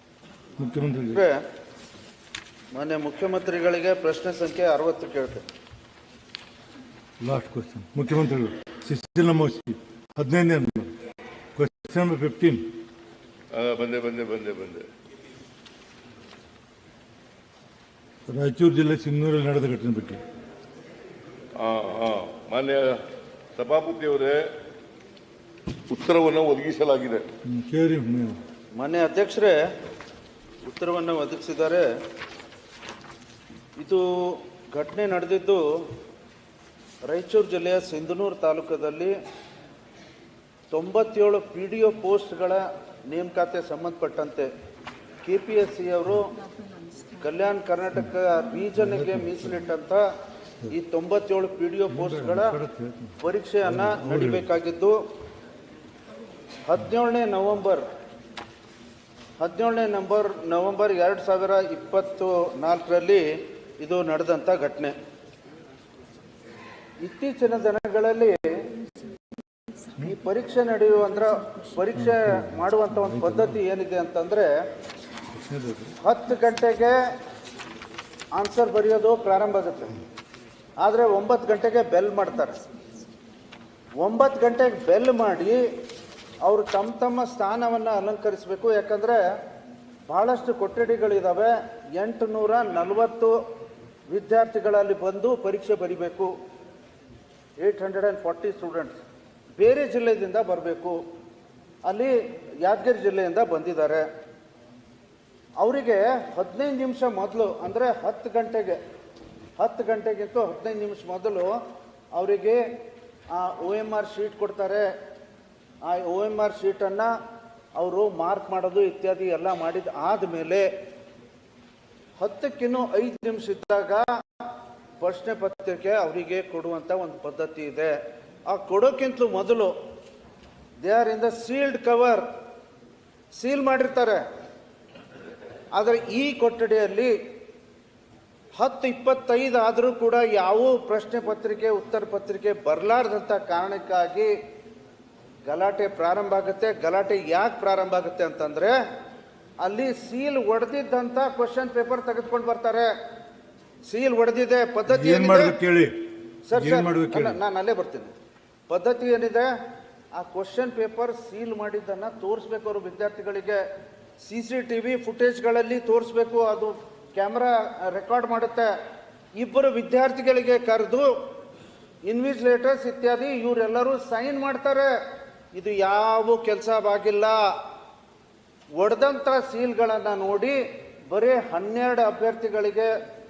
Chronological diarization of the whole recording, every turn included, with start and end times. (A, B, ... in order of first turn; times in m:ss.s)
0:00.6-0:01.2 A
0:01.1-0:01.4 B
0:02.7-0:05.4 B
0:07.2-0:10.9 A
0:11.6-0:12.6 A
0:13.5-0:14.9 C
0:18.3-0:20.2 A
0:21.6-0:23.0 C
0:23.5-0:24.5 C
0:25.9-0:27.2 C
0:27.4-0:28.4 A
0:28.8-0:29.6 B
0:30.6-0:31.9 B
0:33.8-0:35.6 B
0:37.0-0:39.1 B
0:40.7-0:44.5 B
0:45.2-0:46.3 B
0:47.2-0:50.0 B
0:48.8-0:49.6 A
0:50.7-0:52.6 B
0:51.9-0:53.1 A
0:53.2-0:55.0 B
0:53.6-0:54.4 A
0:56.6-0:57.8 B
0:59.4-1:03.2 B
1:03.8-1:04.9 B
1:07.0-1:08.4 B
1:10.0-1:14.5 B
1:12.0-1:13.5 A
1:15.4-1:15.9 A
1:16.0-1:16.9 B
1:18.3-1:20.0 B
1:20.8-1:22.6 B
1:24.0-1:25.6 B
1:26.4-1:29.2 B
1:30.1-1:33.3 B
1:34.1-1:36.3 B
1:37.6-1:39.0 B
1:39.6-1:41.0 B
1:41.8-1:44.0 B
1:45.6-1:48.8 B
1:49.6-1:51.5 B
1:52.1-1:52.6 B
1:53.3-1:54.8 B
1:55.8-1:57.1 B
1:57.8-2:00.7 B
2:02.2-2:04.0 B
2:05.0-2:07.9 B
2:08.5-2:09.7 B
2:10.8-2:12.2 B
2:13.3-2:14.2 B
2:15.7-2:17.1 B
2:18.6-2:24.3 B
2:25.4-2:28.8 B
2:29.6-2:32.9 B
2:33.8-2:35.5 B
2:34.9-2:35.9 A
2:36.4-2:38.1 B
2:36.6-2:37.4 A
2:38.7-2:39.5 B
2:40.1-2:43.6 B
2:44.2-2:48.7 B
2:49.4-2:51.1 B
2:52.0-2:54.9 B
2:55.5-2:57.4 B
2:58.8-3:00.6 B
3:01.1-3:02.9 B